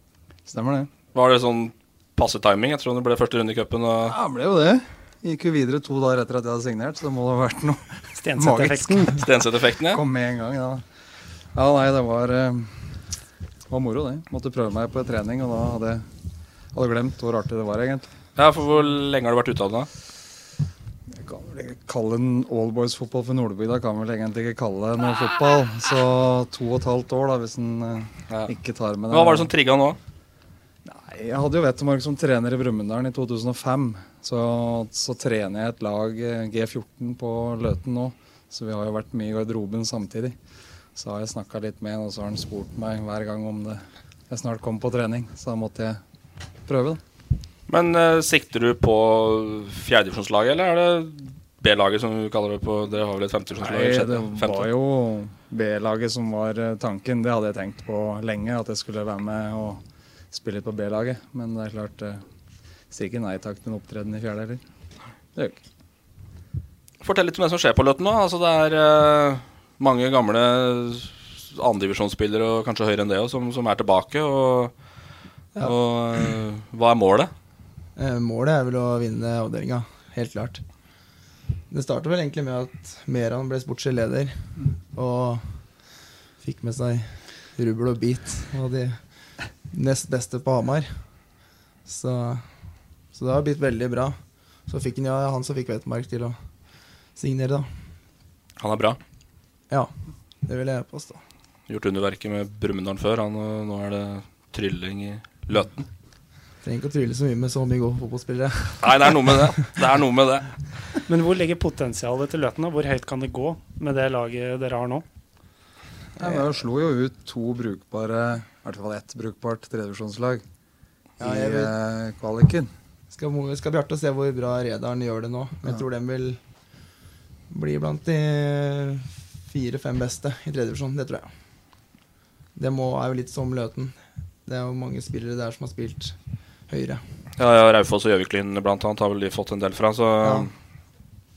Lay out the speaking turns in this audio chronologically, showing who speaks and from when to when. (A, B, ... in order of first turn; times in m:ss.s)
0:00.5-0:00.9 A
0:01.1-0:04.2 B
0:04.1-0:09.3 A
0:08.2-0:09.2 C
0:09.2-0:10.0 B
0:09.9-0:10.8 A
0:11.6-0:12.8 A
0:13.7-0:16.0 A
0:16.7-0:18.1 A
0:18.4-0:19.9 B
0:21.2-0:29.5 A
0:29.1-0:30.0 B
0:30.8-0:40.4 A
0:41.0-0:46.0 A
0:46.7-0:47.0 A
0:47.7-0:54.7 B
0:53.6-1:02.2 A
1:02.9-1:04.6 A
1:07.0-1:14.7 B
1:15.6-1:17.3 B
1:18.0-1:20.6 D
1:21.7-1:24.4 D
1:24.9-1:25.4 D
1:26.4-1:29.0 D
1:29.7-1:30.9 D
1:31.9-1:32.4 D
1:33.1-1:36.4 D
1:37.2-1:37.7 D
1:38.6-1:39.0 B
1:40.4-1:41.2 D
1:41.7-1:45.9 B
1:46.6-1:49.1 D
1:48.8-1:50.5 B
1:51.1-1:55.0 C
1:56.2-2:00.4 A
2:01.2-2:01.8 D
2:01.2-2:02.7 A
2:03.1-2:06.4 D
2:07.5-2:11.3 D
2:12.6-2:16.2 D
2:16.7-2:17.0 D
2:17.4-2:20.5 B
2:20.2-2:20.5 D